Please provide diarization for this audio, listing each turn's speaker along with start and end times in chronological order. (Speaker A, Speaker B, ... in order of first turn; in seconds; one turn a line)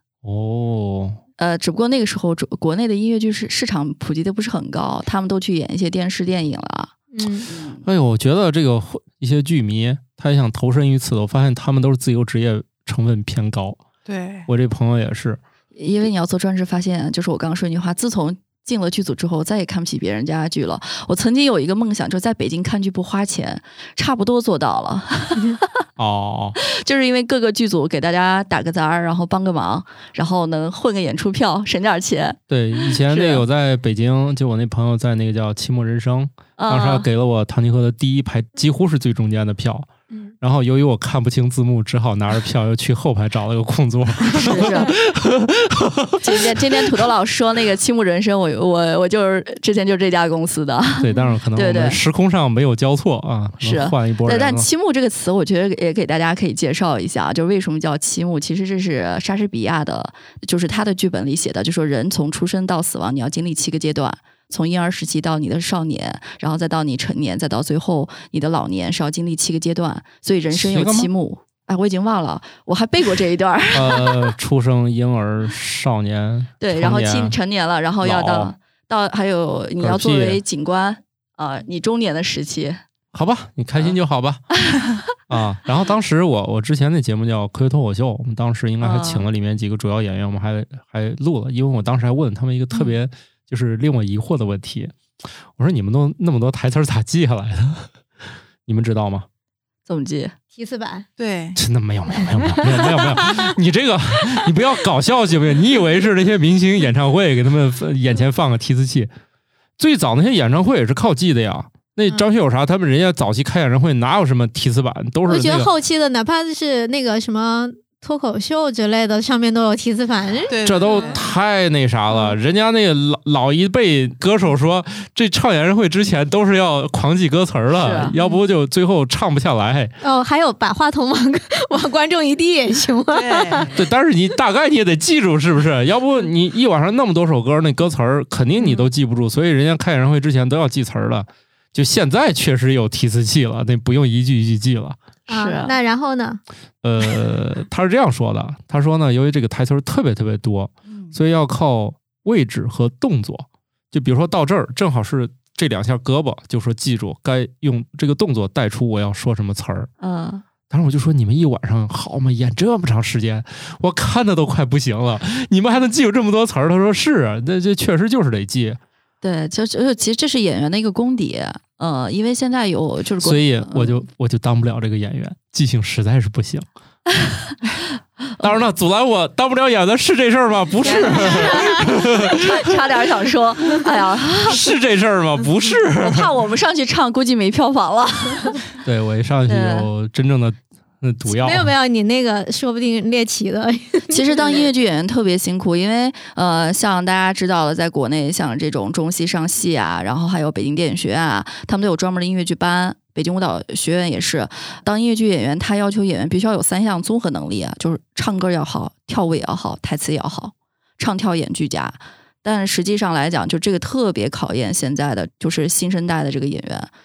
Speaker A: 0.2-1.2
Speaker B: 1.4-6.9
Speaker C: 7.1-7.5
Speaker B: 7.5-7.8
Speaker A: 7.8-13.8
Speaker D: 14.1-14.5
Speaker A: 14.5-15.4
Speaker B: 15.8-25.6
Speaker A: 26.0-26.6
Speaker B: 26.6-33.4
Speaker A: 32.5-39.9
Speaker B: 36.6-37.1
Speaker A: 40.4-46.6
Speaker B: 44.3-44.9
Speaker B: 46.2-52.0
Speaker A: 51.0-54.7
Speaker B: 53.6-74.3
Speaker A: 70.5-71.1
Speaker A: 73.7-77.4
Speaker B: 76.6-82.8
Speaker A: 78.0-78.5
Speaker A: 79.8-80.4
Speaker A: 83.1-84.5
Speaker A: 85.3-94.9
Speaker B: 88.8-89.2
Speaker A: 95.6-97.9
Speaker A: 98.7-99.3
Speaker B: 99.9-100.3
Speaker C: 100.6-101.1
Speaker D: 101.2-101.6
Speaker A: 101.6-109.1
Speaker C: 102.5-103.4
Speaker A: 109.8-115.7
Speaker C: 115.3-121.1
Speaker D: 120.5-121.2
Speaker A: 120.6-129.9
Speaker B: 127.7-128.1
Speaker C: 130.0-133.7
Speaker D: 133.1-133.8
Speaker A: 133.7-145.0
Speaker C: 145.3-146.4
Speaker B: 145.3-145.7
Speaker A: 146.8-159.9
Speaker B: 160.0-160.4
Speaker A: 160.7-168.8
Speaker B: 169.2-174.0
Speaker A: 173.2-176.7
Speaker A: 178.4-182.7
Speaker B: 180.8-184.6
Speaker C: 181.1-181.8
Speaker A: 184.4-186.3
Speaker B: 186.0-188.6
Speaker A: 188.8-191.7
Speaker B: 189.5-189.9
Speaker C: 191.3-194.7
Speaker B: 194.1-216.9